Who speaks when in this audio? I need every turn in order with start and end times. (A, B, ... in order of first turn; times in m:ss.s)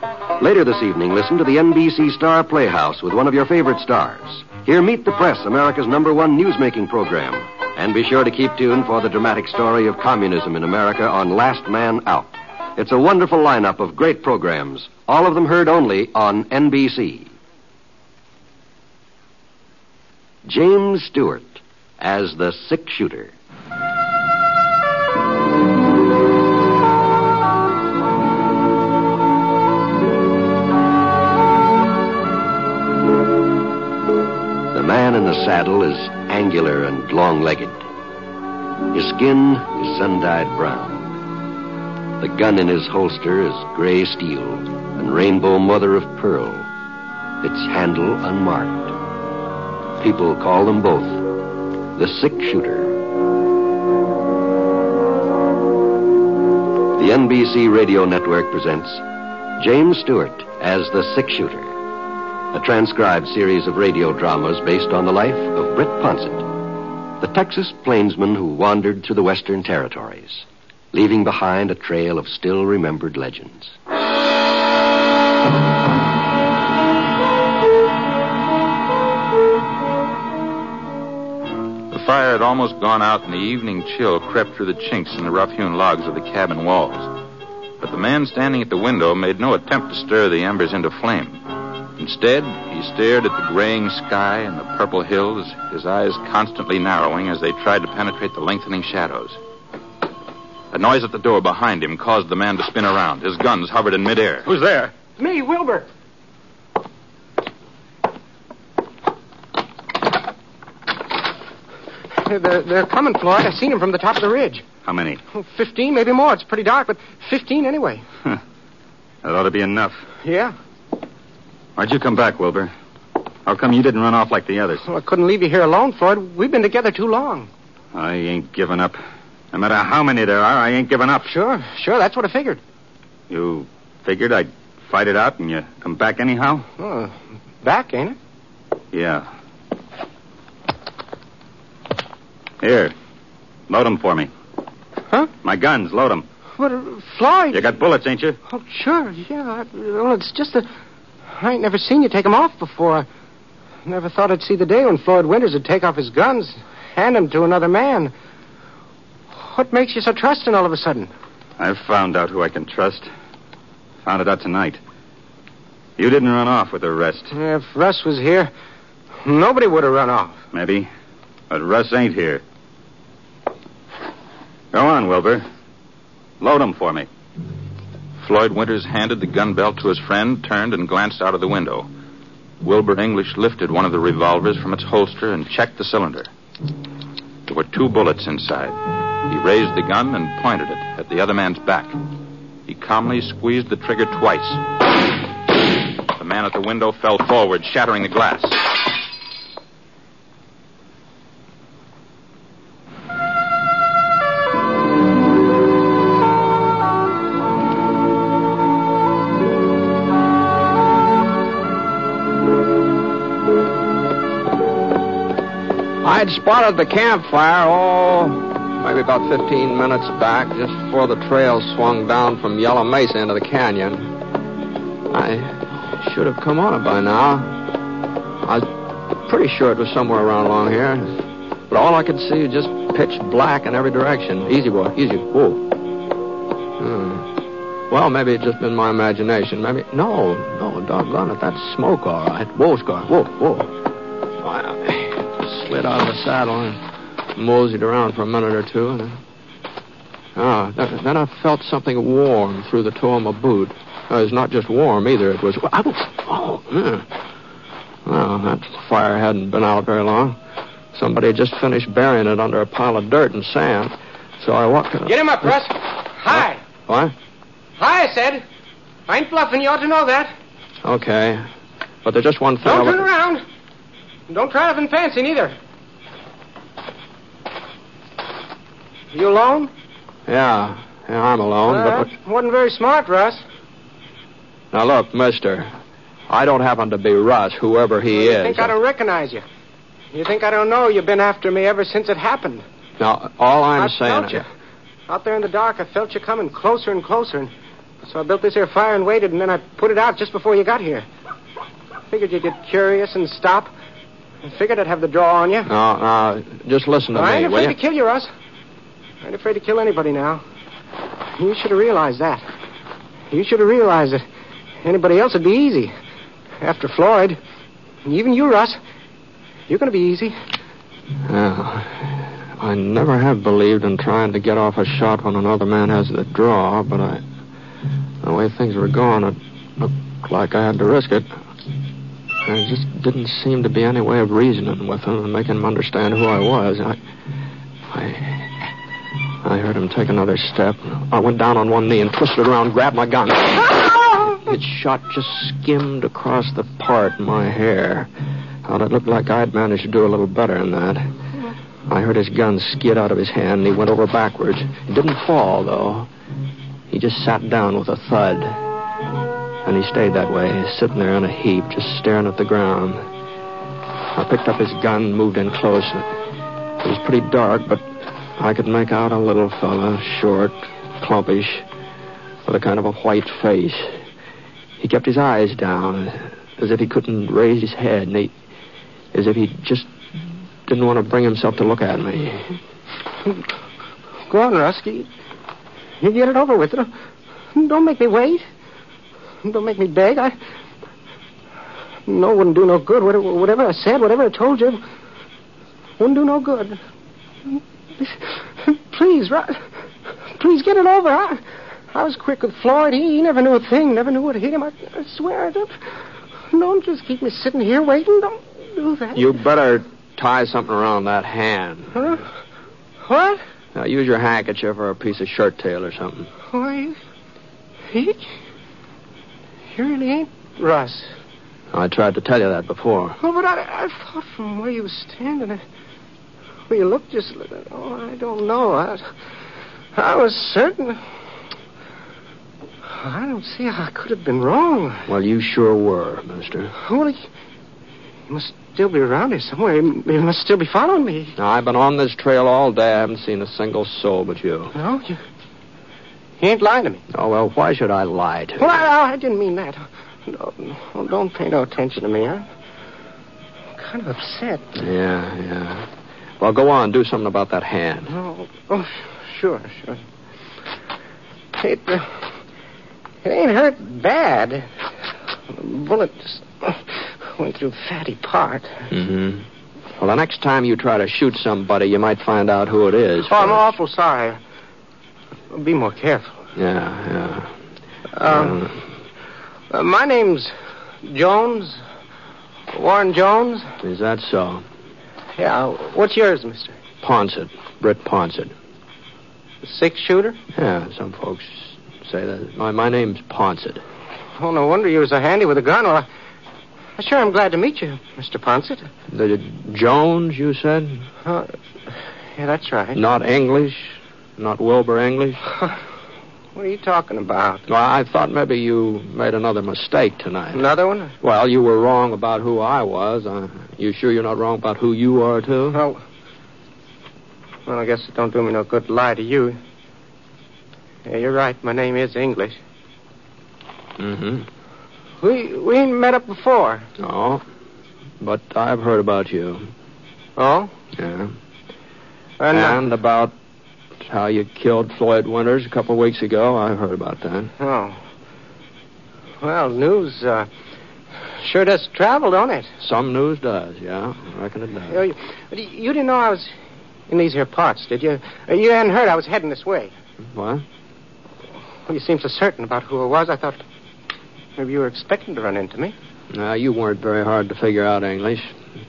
0:00.4-0:17.3 A
0:20.5-0:23.3 A
0:34.7-0:37.8 A
0:38.9-0:41.1 A
0:42.2-0:46.7 A
0:47.4-0:49.0 A
0:50.0-0:51.4 A
0:52.0-0:53.0 A
0:57.0-0:59.0 A
0:59.6-1:01.8 A
1:02.5-1:06.5 A
1:07.2-1:13.7 A
1:21.9-1:27.1 B
1:27.8-1:31.4 B
1:32.0-1:39.4 B
1:40.7-1:44.4 B
1:44.5-1:45.9 C
1:52.2-1:54.6 C
1:54.8-1:55.2 D
1:55.3-1:58.0 C
1:59.2-2:00.0 D
2:00.2-2:00.5 C
2:01.8-2:02.7 D
2:03.5-2:04.8 D
2:04.8-2:07.5 C
2:07.9-2:09.0 D
2:09.5-2:11.3 D
2:11.3-2:12.6 C
2:13.3-2:16.6 D
2:16.8-2:18.2 C
2:18.9-2:19.3 D
2:22.6-2:22.9 D
2:23.7-2:24.3 D
2:25.4-2:26.2 D
2:26.6-2:27.7 C
2:27.5-2:28.4 D
2:28.5-2:30.7 C
2:31.4-2:33.1 C
2:33.9-2:38.1 C
2:39.4-2:41.1 C
2:41.6-2:43.1 D
2:44.0-2:44.8 D
2:46.0-2:47.3 D
2:47.3-2:48.5 C
2:49.2-2:50.4 C
2:50.5-2:50.9 D
2:51.5-2:52.4 D
2:54.7-2:55.4 D
2:56.4-2:57.1 D
2:58.2-3:01.9 B
3:02.6-3:06.3 B
3:07.5-3:12.0 B
3:12.7-3:14.6 B
3:16.2-3:18.8 B
3:36.0-3:44.2 E
3:45.1-3:47.7 E
3:48.4-3:55.8 E
3:56.8-3:57.3 E
3:57.9-4:03.8 E
4:04.4-4:06.8 E
4:07.4-4:09.2 E
4:10.4-4:17.1 E
4:18.1-4:20.4 E
4:20.9-4:25.5 E
4:25.1-4:26.6 C
4:26.3-4:27.1 E
4:27.8-4:28.4 C
4:29.1-4:30.3 C
4:30.8-4:31.5 E
4:32.0-4:33.1 E
4:32.6-4:33.4 C
4:34.3-4:35.6 C
4:39.1-4:39.7 C
4:40.3-4:42.1 E
4:41.7-4:43.4 C
4:44.7-4:45.7 E
4:46.3-4:48.7 E
4:48.1-4:49.4 C
4:50.1-4:52.6 C
4:53.0-4:54.4 E
4:53.8-4:54.5 C
4:55.1-4:57.5 C
4:58.1-5:01.1 C
5:02.1-5:03.7 C
5:04.4-5:05.7 C
5:05.7-5:07.8 E
5:07.1-5:08.3 C
5:09.2-5:10.4 C
5:11.4-5:12.4 C
5:13.3-5:14.2 C
5:14.8-5:15.9 C
5:16.6-5:17.4 C
5:18.0-5:18.8 C
5:19.7-5:20.4 C
5:21.2-5:27.2 E
5:28.2-5:31.3 E
5:32.4-5:37.0 E
5:37.9-5:38.5 E
5:39.4-5:48.1 E
5:48.6-5:51.2 E
5:51.9-5:56.1 E
5:56.9-5:58.6 E
5:59.6-6:03.0 E
6:04.1-6:06.1 E
6:06.8-6:11.7 E
6:12.4-6:14.0 E
6:14.8-6:18.3 E
6:19.1-6:19.9 E
6:20.7-6:22.6 E
6:24.3-6:25.1 C
6:26.0-6:26.9 C
6:27.6-6:28.4 C
6:29.4-6:30.4 C
6:32.1-6:34.8 C
6:36.0-6:36.8 C
6:37.5-6:39.6 C
6:40.4-6:45.9 C
6:46.5-6:49.3 C
6:49.2-6:52.1 E
6:52.0-6:52.2 C
6:53.0-6:53.4 C
6:53.7-6:56.3 E
6:56.5-6:57.0 C
6:57.9-6:58.3 C
6:59.7-7:01.1 C
7:01.7-7:03.2 E
7:03.2-7:05.6 C
7:06.7-7:09.1 C
7:10.0-7:11.0 C
7:12.9-7:15.1 C
7:15.1-7:16.7 E
7:16.8-7:17.3 C
7:18.3-7:21.4 C
7:21.4-7:24.7 E
7:24.8-7:25.2 C
7:26.4-7:27.0 C
7:27.1-7:28.8 E
7:28.6-7:32.5 C
7:33.8-7:34.7 C
7:34.8-7:35.9 E
7:36.4-7:38.1 E
7:38.1-7:40.0 C
7:41.5-7:42.3 C
7:43.2-7:44.7 C
7:45.5-7:48.9 C
7:48.9-7:49.5 E
7:50.0-7:53.6 E
7:53.3-7:54.4 C
7:55.5-7:56.4 C
7:56.6-7:57.5 E
7:58.1-7:58.6 C
7:58.2-7:58.8 E
7:59.7-8:01.8 C
8:02.7-8:03.7 C
8:03.8-8:04.6 E
8:05.4-8:06.8 C
8:07.0-8:08.5 E
8:09.6-8:10.4 C
8:10.5-8:13.8 E
8:14.4-8:16.1 C
8:17.0-8:18.9 C
8:19.1-8:21.1 E
8:21.2-8:21.5 C
8:22.4-8:23.0 C
8:23.0-8:25.4 E
8:26.6-8:27.7 C
8:27.7-8:30.6 E
8:30.5-8:31.1 C
8:31.2-8:35.8 E
8:35.7-8:36.0 C
8:37.7-8:39.6 C
8:41.1-8:42.6 C
8:44.0-8:44.5 E
8:45.2-8:46.9 C
8:47.0-8:47.4 E
8:48.2-8:49.7 E
8:50.4-8:50.7 C
8:51.0-8:51.4 E
8:52.4-8:52.8 C
8:52.5-8:53.4 E
8:54.0-8:57.5 E
8:57.6-8:58.0 C
8:59.4-9:00.5 C
9:01.4-9:02.7 C
9:02.8-9:05.0 E
9:04.9-9:06.5 C
9:07.1-9:09.9 C
9:10.3-9:10.6 E
9:11.9-9:13.6 C
9:14.6-9:16.0 C
9:16.3-9:18.6 E